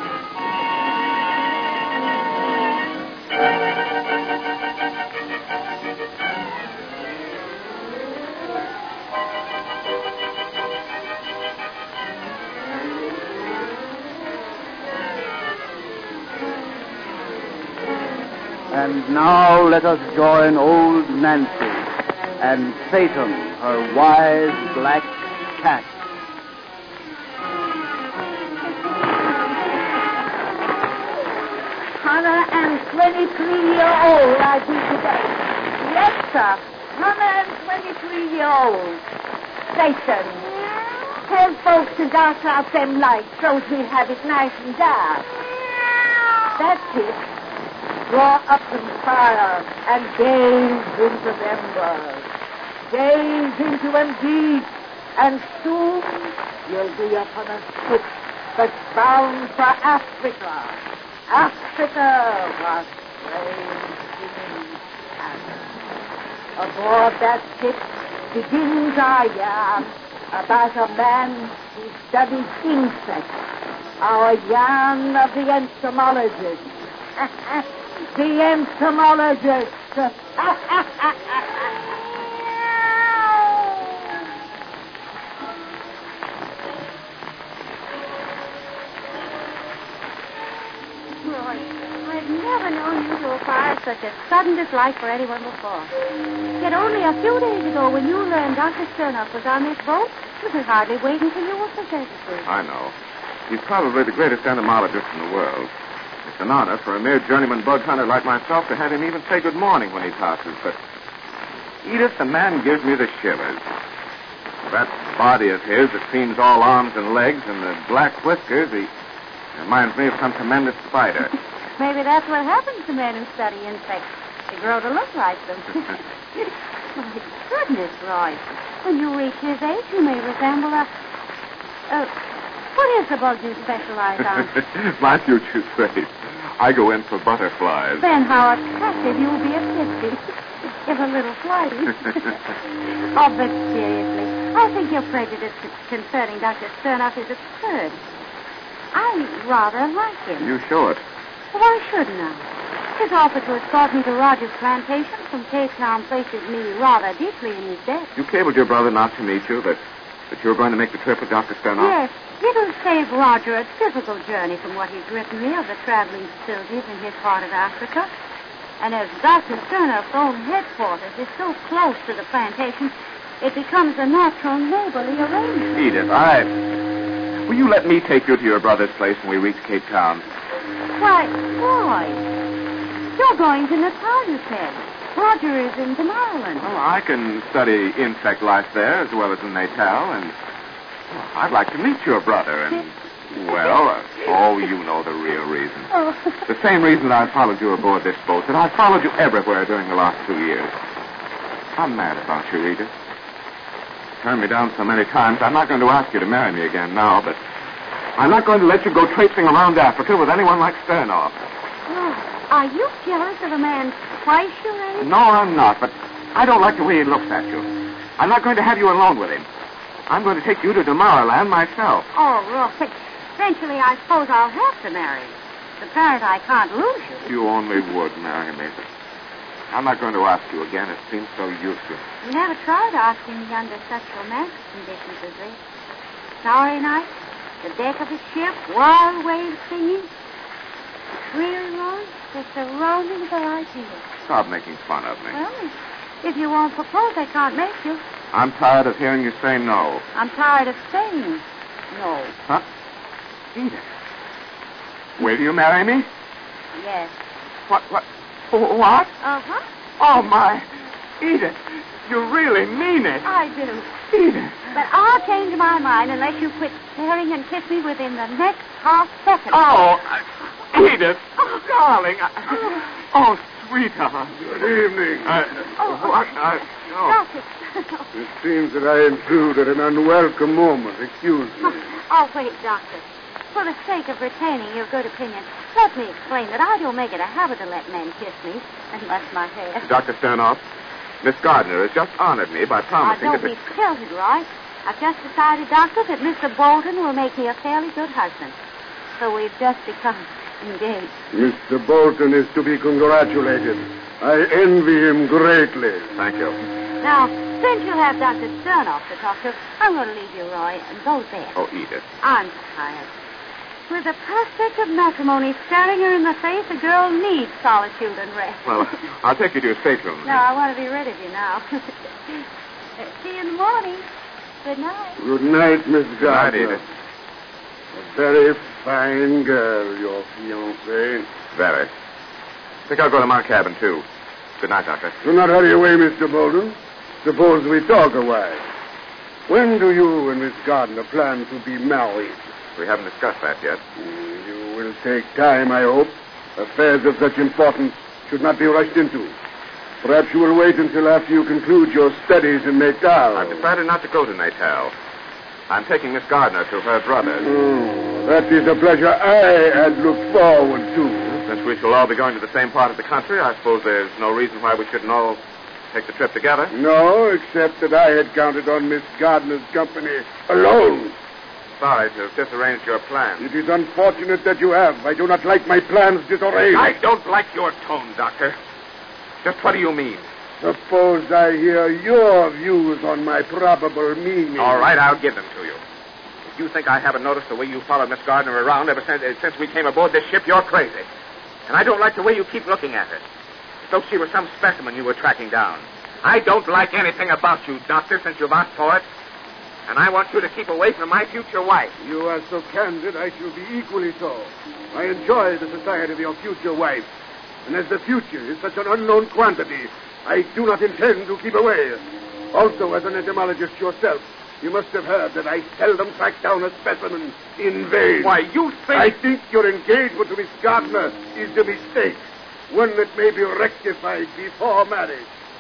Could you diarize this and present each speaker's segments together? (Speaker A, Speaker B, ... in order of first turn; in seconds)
Speaker A: 18.7-26.0
Speaker B: 31.9-39.0, 39.7-45.3, 46.5-47.2, 48.1-52.3, 52.9-65.7, 66.6-73.4, 74.0-84.2
Speaker C: 91.2-95.9, 96.6-102.5, 121.8-130.9, 132.8-134.6, 138.0-142.4, 142.9-148.0, 148.9-150.5, 151.5-158.1, 161.8-168.1, 168.8-175.8, 180.9-182.2, 183.1-186.7, 195.9-196.4, 211.9-215.1, 222.1-227.3, 232.2-235.6, 236.4-237.1, 237.6-240.1, 241.1-244.1, 245.3-248.0, 250.1-252.3, 256.7-257.1, 259.2-259.7, 263.2-264.0, 264.7-269.6, 275.8-278.1, 281.6-289.9, 293.0-298.5, 299.2-301.1, 307.0-311.6, 312.2-313.1, 313.9-319.0, 320.2-322.5, 323.0-324.1, 324.6-325.2
Speaker D: 102.5-102.9, 103.5-105.7, 106.2-110.8, 111.8-113.6, 114.6-118.9, 119.5-121.3, 134.3-138.1, 150.4-151.0, 158.2-162.0, 175.8-176.5, 177.5-180.3, 186.6-190.3, 191.1-195.9, 196.5-200.7, 201.8-202.9, 204.2-207.4, 208.2-211.4, 215.0-219.5, 220.1-222.1, 227.3-228.9, 229.7-232.0, 244.3-245.4, 248.3-250.1, 253.5-253.8, 255.2-256.1, 257.7-259.1, 260.0-260.7, 261.2-263.3, 264.1-264.6, 269.5-274.5, 275.3-277.2, 289.8-290.6, 291.2-293.5, 306.1-306.6, 311.5-312.1, 318.6-320.4, 326.2-326.8, 331.5-331.9, 332.9-334.1, 334.6-335.2, 342.8-343.8, 353.4-354.9, 355.7-357.5, 361.2-365.4, 365.9-366.7, 371.8-373.5, 376.6-378.6, 379.4-380.3, 384.6-385.8, 386.5-391.1, 391.7-393.2, 393.8-399.1, 399.9-401.9, 418.2-419.1
Speaker E: 274.4-275.4, 278.1-281.8, 301.3-306.1, 325.2-326.8, 327.9-331.3, 335.2-338.6, 339.5-342.5, 344.0-349.4, 350.0-353.6, 357.4-361.3, 366.7-371.2, 373.4-376.9, 380.6-384.9, 402.0-407.1, 407.7-418.4, 418.9-425.3